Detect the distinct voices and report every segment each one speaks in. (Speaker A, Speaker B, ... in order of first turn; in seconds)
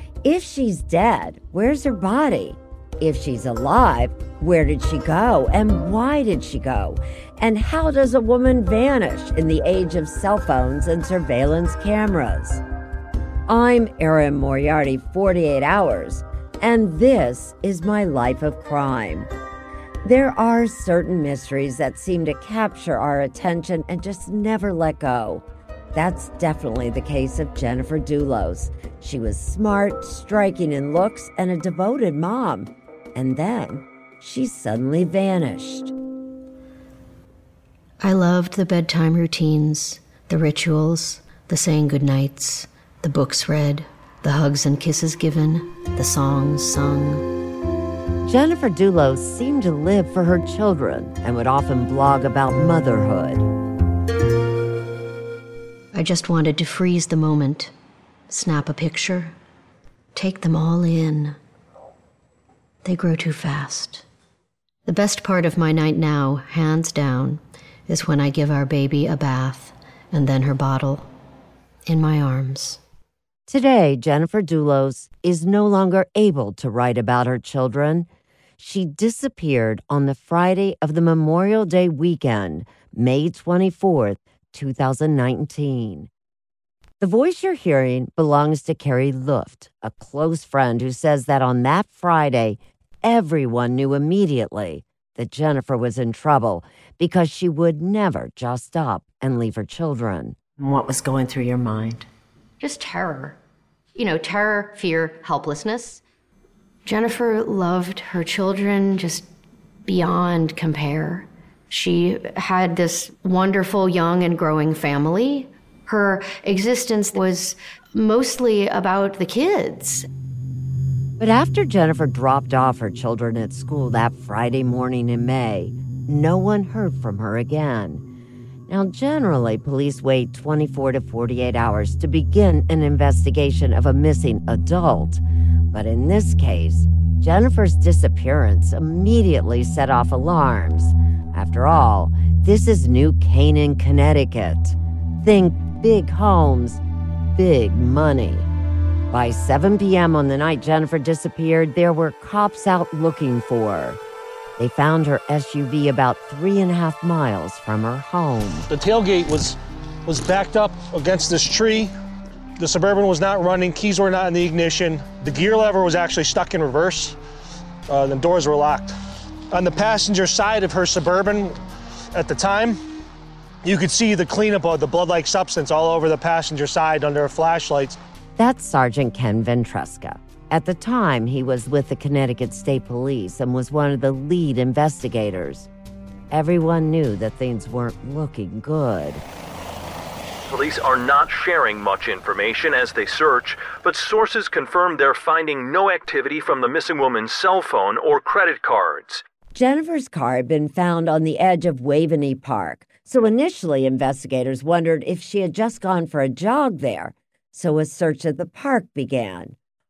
Speaker A: 0.2-12.6, 13.5-19.3, 20.1-35.9, 48.3-53.5, 73.5-78.1, 78.6-86.1, 87.0-102.0, 121.2-128.0, 128.7-135.2, 135.7-146.8, 147.4-148.5, 149.1-154.0, 154.6-158.7, 178.4-185.7, 186.3-189.2, 199.5-209.6
Speaker B: 38.0-47.3, 55.9-57.7, 58.3-59.3, 60.1-61.4, 62.8-64.0, 64.9-71.1, 71.9-72.8, 102.6-103.4, 104.0-106.0, 106.9-109.3, 109.9-120.1
Speaker C: 158.7-161.9, 162.6-167.2, 167.9-168.9, 169.5-171.6, 172.1-172.8, 173.7-178.0
Speaker D: 190.5-199.2